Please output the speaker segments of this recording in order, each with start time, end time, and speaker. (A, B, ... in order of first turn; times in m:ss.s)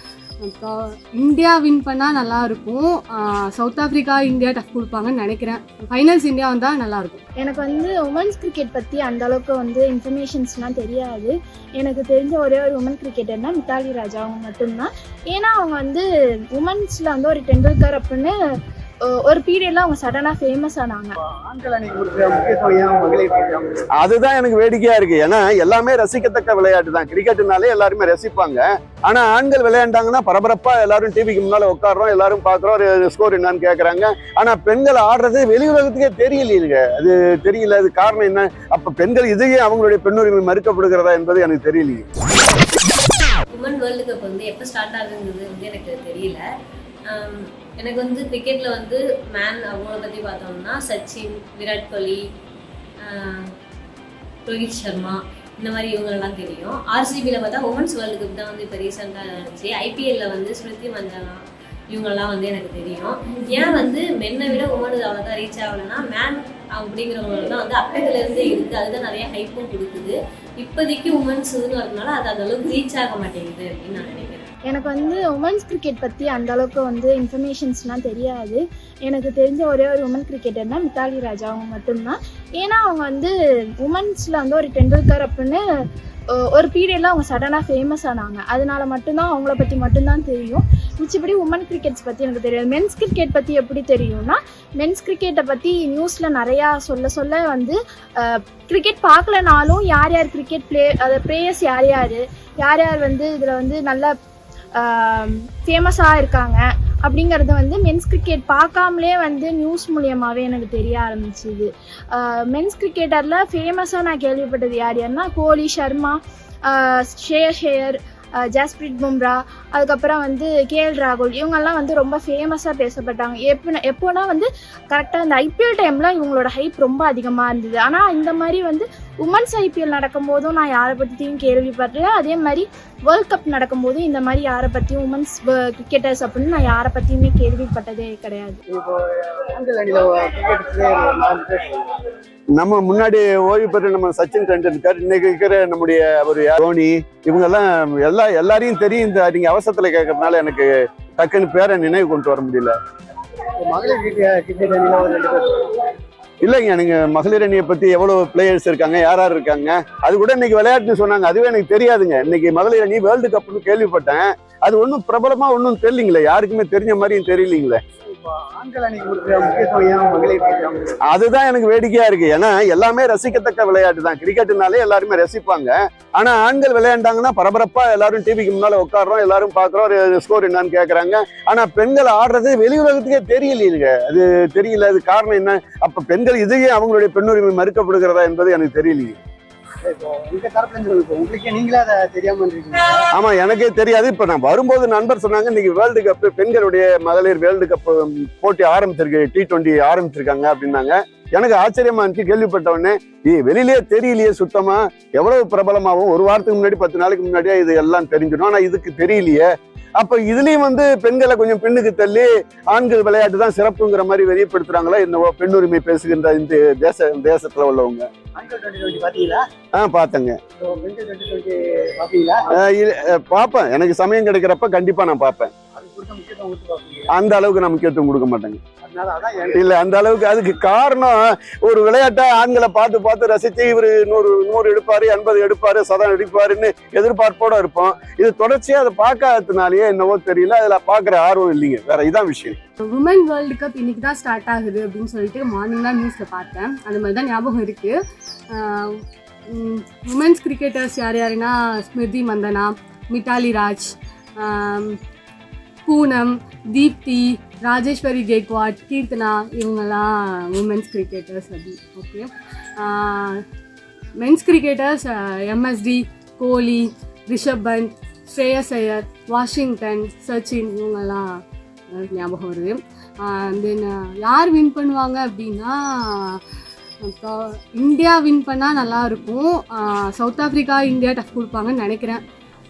0:00.4-0:07.2 A
0:07.4-0:18.3 B
0:19.1-0:21.1 B
0:21.2-0:23.8 C
0:24.0-0:42.0 D
0:43.5-0:46.4 E
0:47.1-0:52.2 E
0:53.0-0:53.5 E
0:54.4-1:14.5 E
1:14.7-1:25.6 B
1:26.4-1:44.1 B
1:44.8-2:18.6 B
2:18.7-2:21.8 C
2:22.5-2:32.8 D
2:33.6-2:35.6 C
2:36.4-2:47.8 D
2:48.1-2:50.8 C
2:51.1-3:09.2 D
3:09.8-3:13.1 C
3:13.1-3:38.1 D
3:38.3-3:39.4 C
3:39.8-3:40.3 D
3:40.6-3:42.5 C
3:42.6-3:45.5 D
3:45.7-3:47.1 C
3:47.1-3:48.6 D
3:48.8-3:49.7 C
3:49.5-4:02.6 D
4:02.9-4:07.9 A
4:08.5-4:15.0 A
4:15.8-4:23.4 A
4:24.2-4:31.4 A
4:32.0-4:36.4 A
4:37.0-4:42.2 A